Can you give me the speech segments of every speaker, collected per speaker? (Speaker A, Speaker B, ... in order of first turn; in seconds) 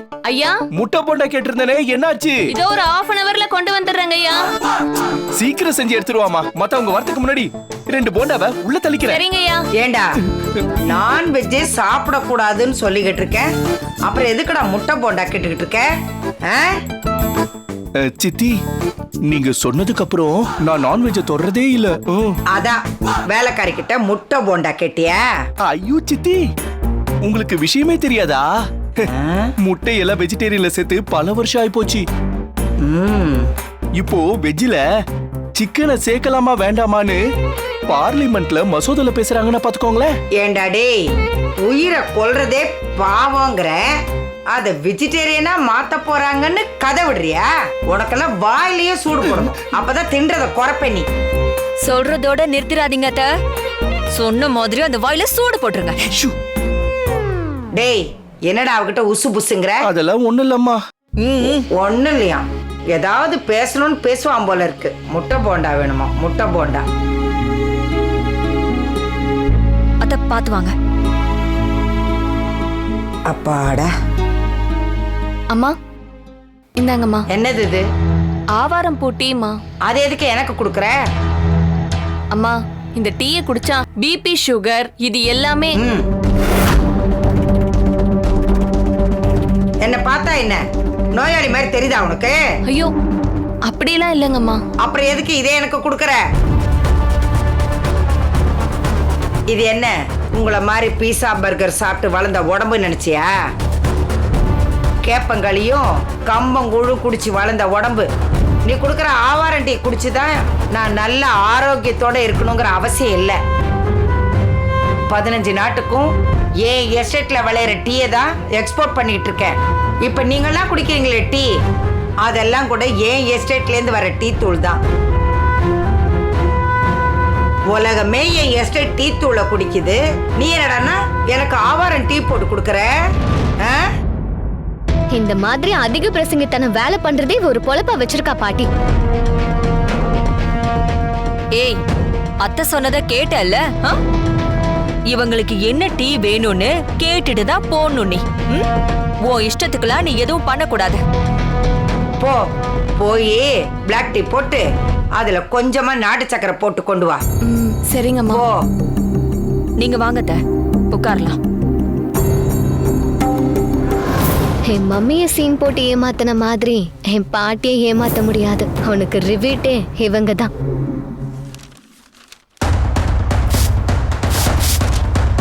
Speaker A: 0.2-0.6, 2.5-4.5, 9.1-9.6, 76.8-77.2, 78.6-79.5, 82.3-85.8, 93.7-94.6, 157.5-158.4
Speaker B: 0.7-2.4, 5.3-9.2, 18.0-18.6, 19.3-22.4, 25.6-26.4, 27.2-28.4, 29.6-32.0, 34.0-34.8, 35.6-37.2, 37.9-40.1, 56.0-56.3, 59.8-60.8
Speaker C: 9.8-10.2, 10.9-13.5, 14.1-15.9, 16.5-16.7, 22.5-25.2, 29.1-29.5, 32.8-33.5, 40.4-41.0, 41.6-43.9, 44.5-51.1, 57.8-59.8, 61.7-66.8, 73.3-73.9, 77.3-77.8, 79.9-81.0, 85.8-86.0, 89.8-90.6, 91.2-92.4, 94.8-96.2, 99.5-103.3, 105.0-108.1, 108.7-113.4, 115.1-116.1, 116.6-121.5, 122.2-124.8, 127.7-132.9, 153.0-154.6, 155.2-157.2, 158.3-158.6
Speaker D: 51.8-53.3, 54.1-56.0, 61.2-61.6, 70.0-70.8, 142.4-144.0, 145.1-148.7, 149.2-151.0, 159.8-160.4, 160.9-161.4
Speaker E: 135.1-138.7, 164.7-170.5